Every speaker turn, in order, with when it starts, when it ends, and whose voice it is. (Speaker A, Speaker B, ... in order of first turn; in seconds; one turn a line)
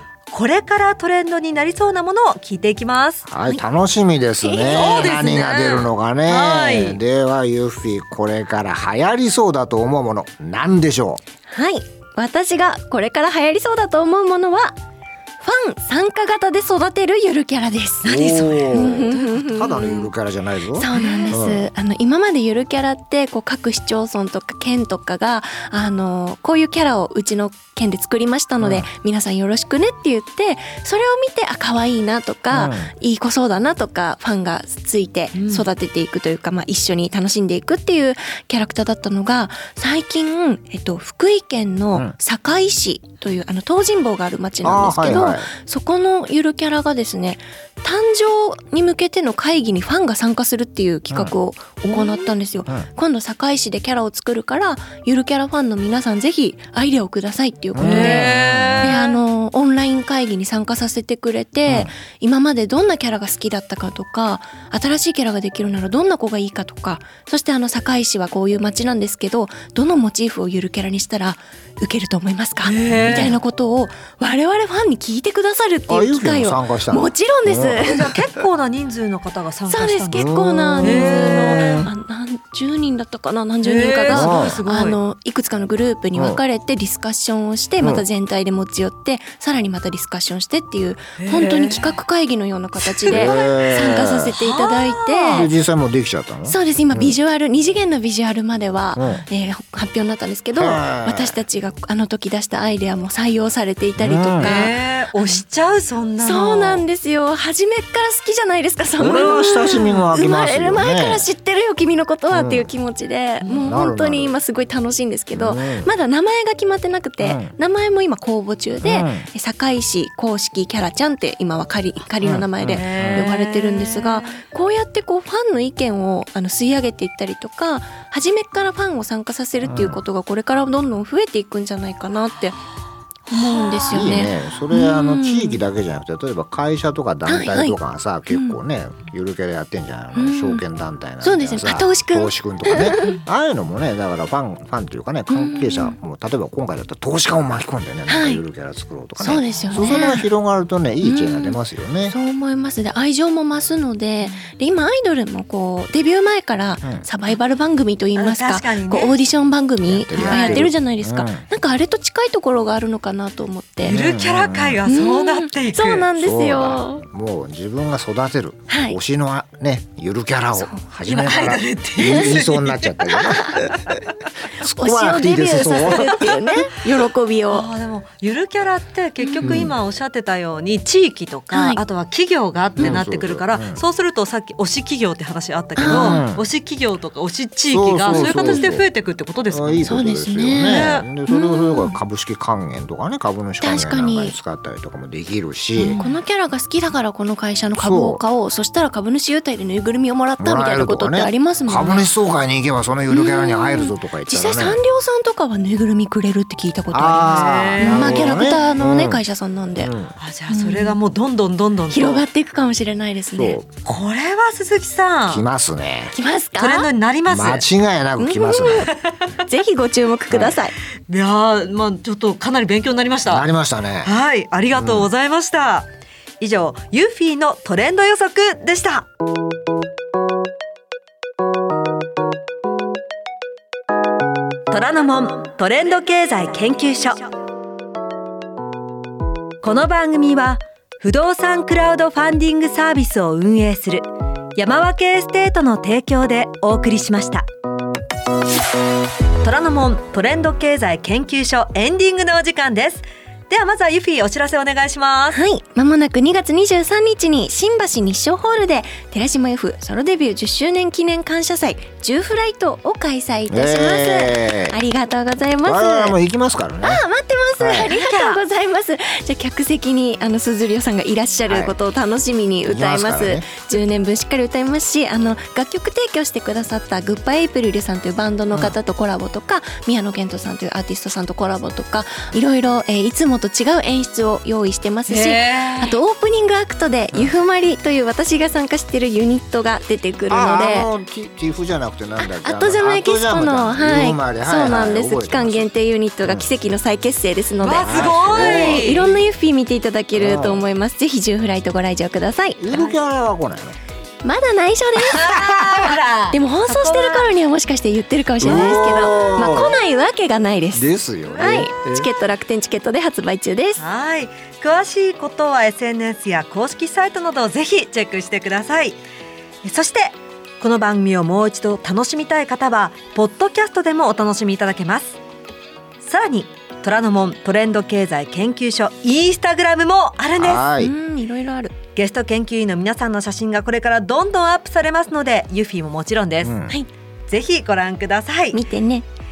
Speaker A: 0.3-3.3
Speaker B: 3.3-11.2
Speaker A: 4.5-7.0
Speaker C: 11.5-14.8
Speaker C: 15.4-18.1
Speaker A: 18.0-19.4
Speaker B: 18.1-21.6
Speaker C: 18.7-20.1
Speaker C: 20.8-78.1
Speaker A: 20.9-21.3
Speaker B: 28.6-28.9
Speaker B: 32.5-32.9
Speaker A: 35.3-35.7
Speaker B: 44.6-45.5
Speaker A: 52.0-52.2
Speaker B: 57.8-58.9
Speaker A: 57.8-59.2
Speaker A: 72.6-73.4
Speaker B: 72.9-73.3
Speaker B: 75.9-78.2
Speaker A: 77.8-80.3
Speaker C: 79.7-95.5
Speaker B: 80.1-81.9
Speaker A: 80.8-81.8
Speaker A: 83.6-85.0
Speaker B: 84.1-84.6
Speaker A: 91.2-92.0
Speaker A: 93.0-95.5
Speaker B: 93.1-94.3
Speaker B: 95.3-97.2
Speaker C: 96.5-105.4
Speaker B: 99.0-99.2
Speaker B: 100.6-101.4
Speaker B: 104.0-104.7
Speaker A: 104.4-106.8
Speaker C: 106.2-132.6
Speaker B: 109.0-111.3
Speaker A: 109.7-110.0
Speaker B: 112.3-112.7
Speaker B: 113.6-114.3
Speaker B: 115.3-115.9
Speaker B: 117.2-117.5
Speaker B: 118.8-119.3
Speaker B: 122.2-123.3
Speaker A: 122.7-124.4
Speaker B: 129.7-130.0
Speaker C: 133.3-135.6
Speaker A: 133.7-134.0
Speaker B: 133.9-152.2
Speaker C: 137.3-137.8
Speaker C: 138.3-138.6
Speaker C: 140.2-140.6
Speaker C: 141.2-143.2
Speaker C: 145.3-146.0
Speaker C: 148.1-148.4
Speaker C: 149.2-150.3
Speaker C: 151.0-164.0
Speaker A: 158.2-159.2
Speaker B: 159.9-161.4
Speaker A: 160.1-160.7
Speaker A: 163.8-166.1
Speaker B: 163.9-164.8
Speaker C: 164.9-167.0
Speaker B: 166.2-174.0
Speaker C: 168.7-169.0
Speaker C: 170.6-170.8
Speaker A: 171.1-173.2
Speaker C: 173.3-173.6
Speaker B: 174.6-176.7
Speaker C: 174.7-177.7
Speaker A: 177.5-189.9
Speaker C: 179.2-179.7
Speaker B: 179.4-179.7
Speaker C: 181.5-181.8
Speaker B: 182.8-183.8
Speaker C: 185.8-186.2
Speaker B: 185.8-186.5
Speaker B: 187.7-188.9
Speaker C: 188.1-188.7
Speaker B: 189.5-196.0
Speaker C: 189.9-192.0
Speaker A: 190.6-191.1
Speaker C: 193.6-194.3
Speaker A: 195.8-196.2
Speaker C: 195.9-202.1
Speaker B: 197.8-198.2
Speaker B: 200.4-204.8
Speaker C: 203.1-209.9
Speaker B: 206.9-209.2
Speaker A: 207.2-208.5
Speaker B: 209.8-210.1
Speaker A: 210.2-212.2
Speaker C: 210.5-211.0
Speaker C: 211.9-213.6
Speaker B: 213.3-213.9
Speaker A: 213.8-215.4
Speaker B: 215.3-216.2
Speaker C: 216.1-216.9
Speaker A: 216.6-217.7
Speaker B: 217.3-218.9
Speaker C: 218.2-218.9
Speaker A: 218.9-219.2
Speaker C: 219.5-220.8
Speaker B: 220.3-220.6
Speaker A: 221.1-223.5
Speaker B: 223.3-224.2
Speaker A: 224.0-225.9
Speaker B: 224.8-225.1
Speaker A: 226.4-229.1
Speaker A: 234.7-237.3
Speaker A: 239.6-247.5
Speaker A: 249.4-255.4
Speaker C: 255.3-266.2
Speaker B: 263.5-264.8
Speaker B: 265.6-267.0
Speaker C: 266.8-290.9
Speaker B: 267.6-267.9
Speaker A: 267.9-268.4
Speaker B: 271.5-271.8
Speaker B: 272.7-273.5
Speaker A: 285.1-286.0
Speaker B: 290.3-295.7
Speaker C: 292.2-302.6
Speaker A: 297.6-299.1
Speaker B: 297.8-299.1
Speaker B: 300.1-300.6
Speaker B: 302.6-303.8
Speaker A: 302.7-303.0
Speaker C: 304.2-305.5
Speaker A: 305.0-307.3
Speaker B: 305.4-305.6
Speaker C: 306.3-313.8
Speaker B: 308.4-309.8
Speaker B: 310.7-312.1
Speaker A: 313.8-319.0
Speaker A: 319.6-325.2
Speaker A: 326.0-330.7
Speaker B: 330.4-330.9
Speaker C: 330.8-331.8
Speaker A: 332.0-336.5
Speaker B: 336.4-336.8
Speaker A: 337.3-338.6
Speaker C: 338.5-339.1